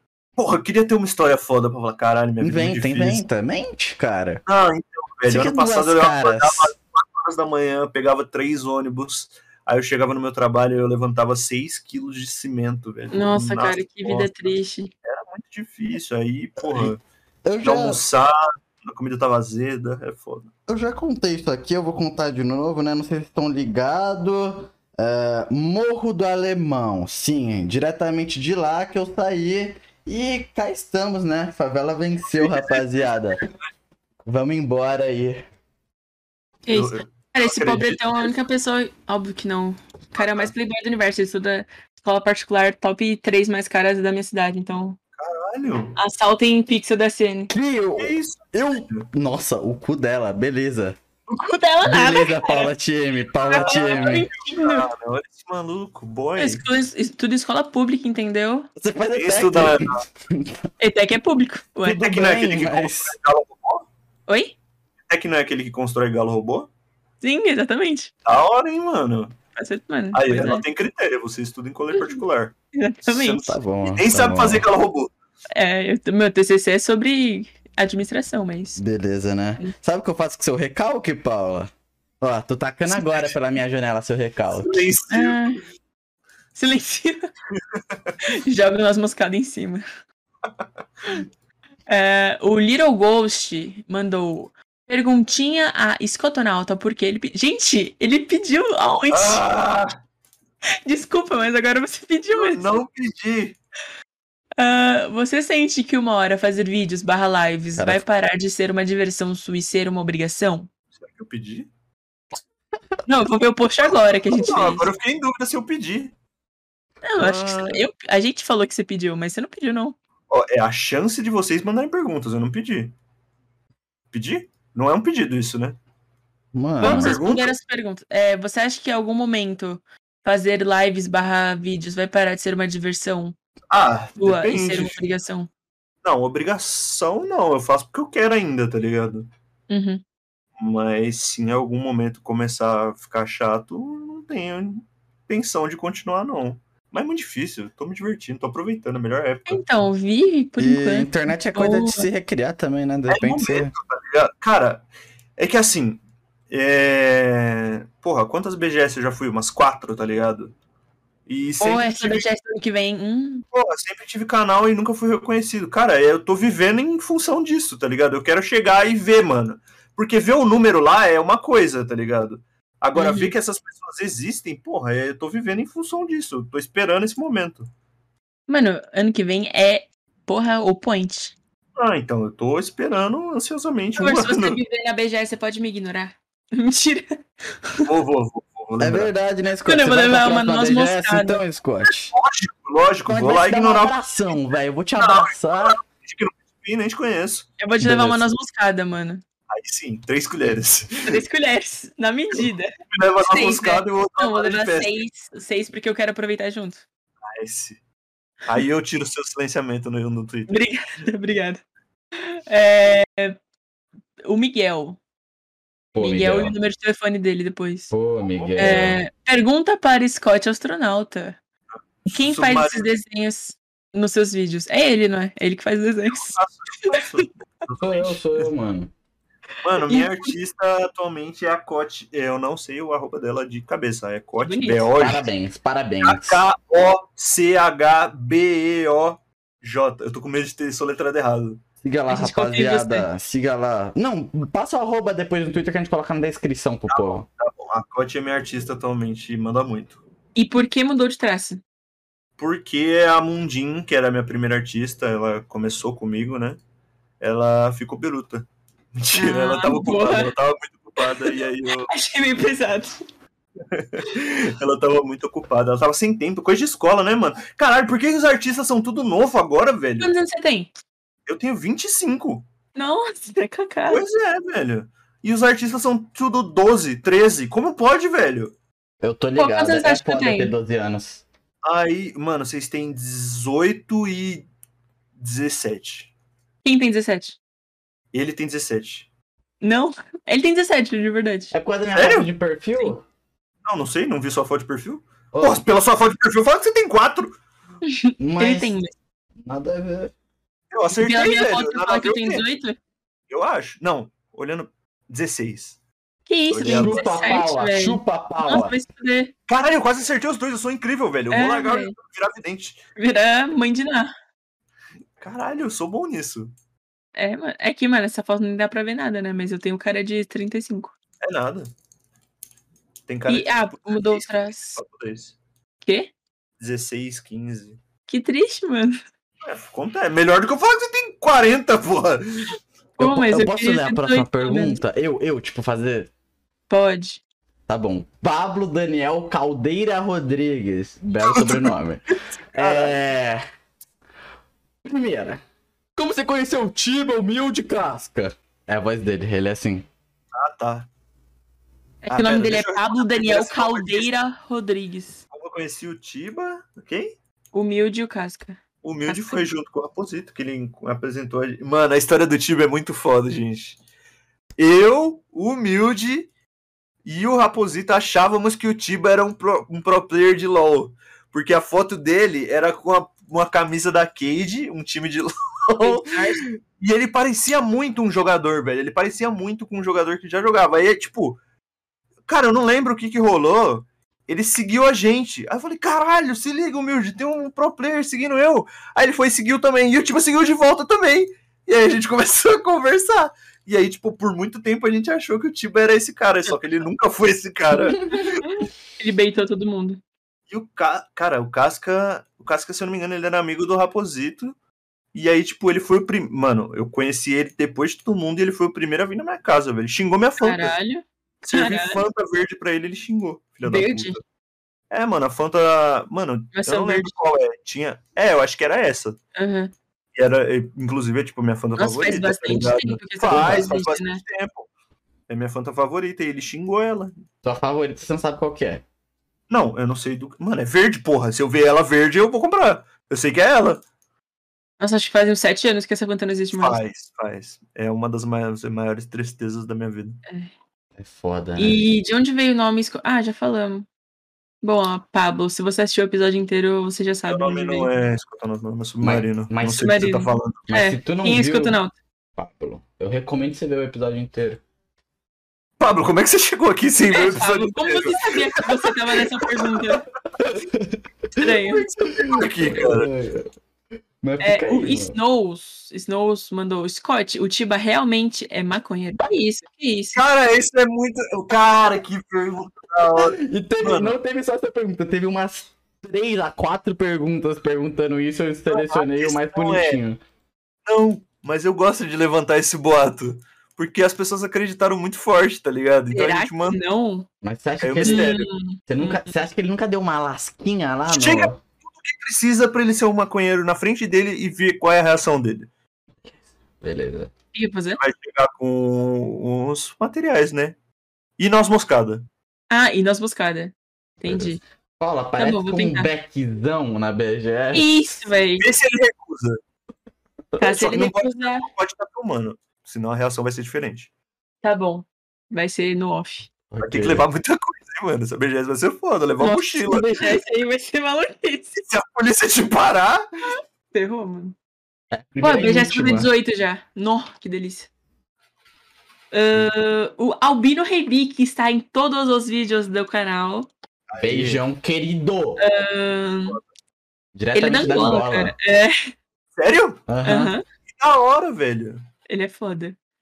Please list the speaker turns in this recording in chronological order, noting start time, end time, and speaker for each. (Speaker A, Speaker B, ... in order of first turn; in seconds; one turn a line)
Speaker A: 0.4-3.2
Speaker B: 2.4-4.4
Speaker A: 4.5-14.5
Speaker B: 5.3-6.7
Speaker C: 13.1-14.9
Speaker A: 15.1-17.0
Speaker B: 16.6-16.9
Speaker B: 17.4-18.0
Speaker A: 17.6-20.5
Speaker B: 20.7-33.4
Speaker A: 32.3-33.0
Speaker B: 34.2-35.5
Speaker C: 36.7-45.0
Speaker A: 36.7-38.3
Speaker A: 40.2-40.5
Speaker A: 45.2-46.0
Speaker C: 46.0-47.5
Speaker B: 47.5-51.0
Speaker A: 48.0-49.1
Speaker C: 51.3-52.7
Speaker B: 51.9-54.3
Speaker C: 53.5-54.9
Speaker A: 53.5-56.6
Speaker C: 56.4-58.7
Speaker B: 58.8-60.7
Speaker A: 59.1-60.0
Speaker C: 60.8-62.0
Speaker A: 61.9-63.9
Speaker B: 61.9-63.1
Speaker C: 64.3-64.6
Speaker A: 65.1-66.7
Speaker C: 67.2-68.1
Speaker A: 68.3-69.4
Speaker C: 69.6-70.6
Speaker A: 70.1-72.5
Speaker C: 72.0-72.2
Speaker C: 72.8-73.6
Speaker A: 73.1-75.1
Speaker B: 73.5-74.7
Speaker C: 75.5-78.8
Speaker B: 78.8-84.9
Speaker A: 82.9-83.3
Speaker A: 84.5-85.5
Speaker C: 85.1-85.6
Speaker C: 86.5-87.2
Speaker C: 88.2-89.8
Speaker C: 91.9-99.4
Speaker A: 99.1-99.9
Speaker C: 100.8-102.8
Speaker A: 102.3-103.6
Speaker C: 104.6-110.7
Speaker B: 107.8-108.0
Speaker A: 111.0-111.7
Speaker C: 113.1-114.9
Speaker A: 114.3-116.1
Speaker C: 117.0-120.0
Speaker A: 117.2-117.8
Speaker A: 120.3-122.9
Speaker A: 124.1-125.8
Speaker B: 126.5-127.2
Speaker A: 126.8-127.6
Speaker C: 126.8-133.4
Speaker A: 133.7-135.0
Speaker C: 134.2-135.5
Speaker A: 136.0-139.3
Speaker C: 139.7-140.0
Speaker A: 140.6-149.6
Speaker C: 149.5-152.1
Speaker B: 150.6-153.7
Speaker A: 153.1-154.9
Speaker A: 155.4-160.5
Speaker A: 161.3-162.3
Speaker C: 161.6-163.4
Speaker A: 163.5-177.7
Speaker C: 173.0-173.3
Speaker C: 178.5-181.3
Speaker A: 181.8-184.6
Speaker C: 184.0-187.2
Speaker A: 187.8-189.1
Speaker B: 188.8-192.1
Speaker C: 189.7-191.4
Speaker A: 192.1-194.4
Speaker B: 193.1-195.8
Speaker A: 195.0-197.5
Speaker C: 197.6-199.2
Speaker B: 197.8-198.3
Speaker A: 199.5-201.2
Speaker C: 201.1-202.7
Speaker A: 202.3-205.0
Speaker C: 203.3-206.8
Speaker A: 207.2-207.8
Speaker A: 208.5-210.6
Speaker C: 210.5-211.6
Speaker C: 212.2-213.4
Speaker C: 214.3-215.0
Speaker B: 215.9-216.6
Speaker C: 216.0-217.9
Speaker B: 217.9-219.0
Speaker A: 218.3-219.0
Speaker C: 218.6-221.4
Speaker A: 222.0-222.9
Speaker C: 222.1-227.2
Speaker A: 226.1-228.5
Speaker B: 227.8-228.9
Speaker A: 229.6-235.2
Speaker C: 229.8-230.3
Speaker C: 234.4-234.9
Speaker B: 235.0-236.4
Speaker A: 236.0-241.6
Speaker B: 241.8-247.2
Speaker C: 242.1-243.1
Speaker A: 246.9-250.0
Speaker C: 250.3-251.6
Speaker A: 252.4-256.6
Speaker A: 257.2-261.9
Speaker C: 259.1-260.3
Speaker C: 261.0-263.0
Speaker A: 263.7-270.1
Speaker C: 270.0-270.7
Speaker A: 271.3-272.4
Speaker C: 272.8-274.0
Speaker A: 273.9-278.5
Speaker B: 279.0-281.2
Speaker C: 279.4-280.5
Speaker A: 281.6-284.5
Speaker A: 285.2-286.1
Speaker C: 286.6-287.4
Speaker A: 288.1-289.1
Speaker C: 289.6-291.5
Speaker B: 291.5-293.0
Speaker A: 291.9-292.3
Speaker A: 293.6-297.4
Speaker B: 295.3-295.6
Speaker C: 297.8-298.9
Speaker B: 298.2-298.8
Speaker B: 299.4-300.1
Speaker A: 300.7-302.4
Speaker C: 301.0-302.8
Speaker A: 303.3-305.8
Speaker C: 306.3-309.3
Speaker A: 306.5-307.1
Speaker B: 306.7-308.8
Speaker A: 309.5-312.8
Speaker C: 311.3-311.9
Speaker C: 313.0-314.1
Speaker A: 315.2-316.5
Speaker C: 317.1-320.9
Speaker A: 321.2-321.7
Speaker A: 323.1-325.4
Speaker C: 323.3-324.8
Speaker C: 325.8-326.1
Speaker A: 326.6-327.8
Speaker C: 328.1-329.0
Speaker A: 329.4-332.6
Speaker C: 333.0-334.8
Speaker B: 333.0-336.1
Speaker C: 336.7-337.2
Speaker B: 337.7-343.4
Speaker A: 341.3-341.7
Speaker A: 342.3-343.0
Speaker B: 344.8-345.4
Speaker B: 346.0-349.9
Speaker A: 350.3-350.9
Speaker C: 352.0-355.2
Speaker A: 352.1-354.1
Speaker A: 355.3-357.1
Speaker C: 357.5-359.4
Speaker A: 358.8-363.8
Speaker A: 364.6-366.3
Speaker A: 367.1-381.4
Speaker C: 375.8-376.4
Speaker A: 382.3-398.6
Speaker C: 397.9-400.0
Speaker A: 400.5-404.6
Speaker A: 405.1-410.8
Speaker C: 410.4-412.0
Speaker A: 411.4-414.2
Speaker C: 413.6-414.2
Speaker A: 414.9-419.2
Speaker C: 416.5-417.1
Speaker C: 419.4-419.7
Speaker A: 420.1-424.7
Speaker C: 421.8-424.2
Speaker B: 423.3-423.8
Speaker A: 425.3-427.2
Speaker B: 427.4-428.8
Speaker A: 429.5-433.8
Speaker C: 434.8-436.8
Speaker A: 436.5-440.2
Speaker B: 441.0-441.8
Speaker C: 441.6-443.9
Speaker C: 444.6-447.9
Speaker A: 447.3-450.7
Speaker B: 449.0-449.9
Speaker C: 449.8-451.9
Speaker B: 450.7-451.8
Speaker B: 452.4-454.6
Speaker A: 455.8-458.9
Speaker C: 457.1-460.1
Speaker B: 460.4-461.0
Speaker C: 461.4-461.9
Speaker A: 461.4-463.1
Speaker B: 462.3-463.5
Speaker B: 464.2-465.1
Speaker C: 464.4-470.2
Speaker A: 470.1-474.2
Speaker B: 473.1-480.2
Speaker A: 478.7-480.0
Speaker A: 480.9-486.8
Speaker C: 486.1-487.3
Speaker B: 487.4-488.3
Speaker A: 487.8-488.5
Speaker C: 488.0-489.3
Speaker B: 488.9-491.6
Speaker A: 491.1-495.7
Speaker B: 496.3-497.3
Speaker C: 497.5-498.0
Speaker A: 498.0-500.8
Speaker A: 501.4-502.3
Speaker C: 502.7-504.6
Speaker B: 504.2-508.0
Speaker C: 505.4-506.1
Speaker C: 507.7-508.6
Speaker A: 508.6-509.6
Speaker C: 510.6-511.7
Speaker A: 510.6-514.1
Speaker C: 514.6-516.5
Speaker B: 516.7-517.3
Speaker A: 516.8-520.4
Speaker C: 519.4-521.8
Speaker A: 521.8-523.5
Speaker C: 523.9-524.6
Speaker B: 525.1-526.3
Speaker C: 525.4-527.9
Speaker C: 529.3-533.7
Speaker A: 534.1-534.6
Speaker B: 534.2-535.6
Speaker C: 535.6-536.6
Speaker B: 537.4-538.5
Speaker C: 537.5-539.0
Speaker A: 539.6-540.0
Speaker B: 540.1-540.5
Speaker C: 540.2-540.6
Speaker A: 540.9-542.0
Speaker C: 542.3-543.0